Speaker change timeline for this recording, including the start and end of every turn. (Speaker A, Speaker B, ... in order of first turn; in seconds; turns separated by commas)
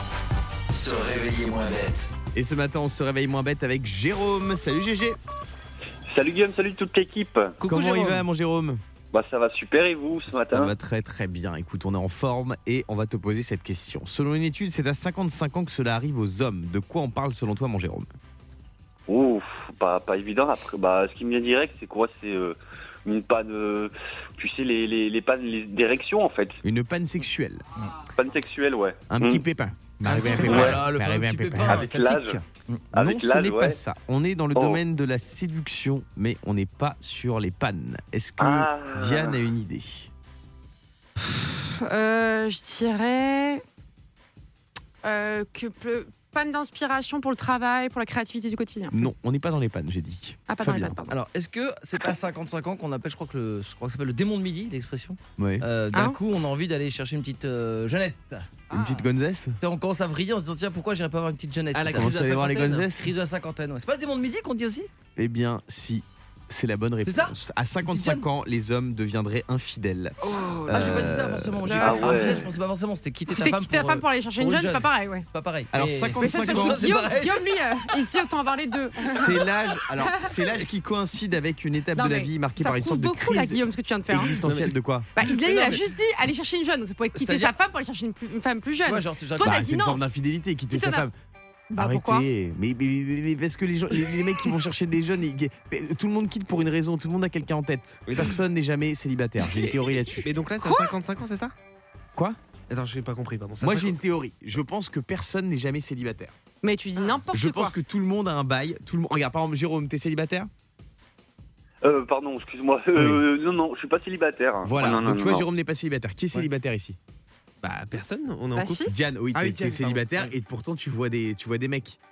Speaker A: 0.7-2.1, Speaker B: 2.3-5.2, Speaker C: 6.1-7.6, Speaker D: 7.6-8.2, Speaker B: 7.7-8.8, Speaker C: 9.1-10.7, Speaker B: 10.3-18.1, Speaker C: 19.1-26.6, Speaker B: 26.6-27.6, Speaker C: 28.1-29.4, Speaker B: 29.1-31.9, Speaker A: 30.0-32.8, Speaker C: 30.3-30.8, Speaker C: 31.7-32.4, Speaker C: 32.9-33.8, Speaker B: 32.9-40.1, Speaker C: 34.5-34.8, Speaker C: 38.4-39.5, Speaker E: 41.2-43.6, Speaker E: 45.0-49.0, Speaker B: 48.9-51.0, Speaker E: 50.5-51.2, Speaker A: 51.1-58.5, Speaker B: 55.4-55.7, Speaker E: 55.9-56.2, Speaker B: 58.7-59.6, Speaker D: 58.7-59.1, Speaker A: 59.6-64.9, Speaker D: 61.7-62.8, Speaker B: 61.9-63.1, Speaker B: 65.2-70.2, Speaker A: 67.0-68.3, Speaker D: 70.3-71.2, Speaker B: 70.7-71.6, Speaker A: 70.7-77.8, Speaker E: 71.6-72.2, Speaker C: 71.8-72.5, Speaker E: 73.3-75.3, Speaker B: 75.7-76.8, Speaker E: 76.2-79.5, Speaker B: 79.1-85.1, Speaker E: 80.1-80.3, Speaker E: 81.9-84.4, Speaker D: 84.2-84.8, Speaker E: 85.2-90.0, Speaker D: 85.4-85.8, Speaker A: 87.2-87.5, Speaker A: 88.8-89.5, Speaker B: 89.4-91.2, Speaker E: 90.7-91.1, Speaker E: 91.7-92.3, Speaker B: 91.8-100.3, Speaker D: 100.2-101.5, Speaker E: 100.6-100.9, Speaker D: 102.7-104.0, Speaker B: 103.6-106.3, Speaker E: 106.6-107.8, Speaker B: 107.1-110.5, Speaker C: 111.8-115.5, Speaker B: 113.0-113.2, Speaker B: 114.6-117.0, Speaker D: 117.6-120.3, Speaker E: 118.5-118.9, Speaker B: 118.9-122.0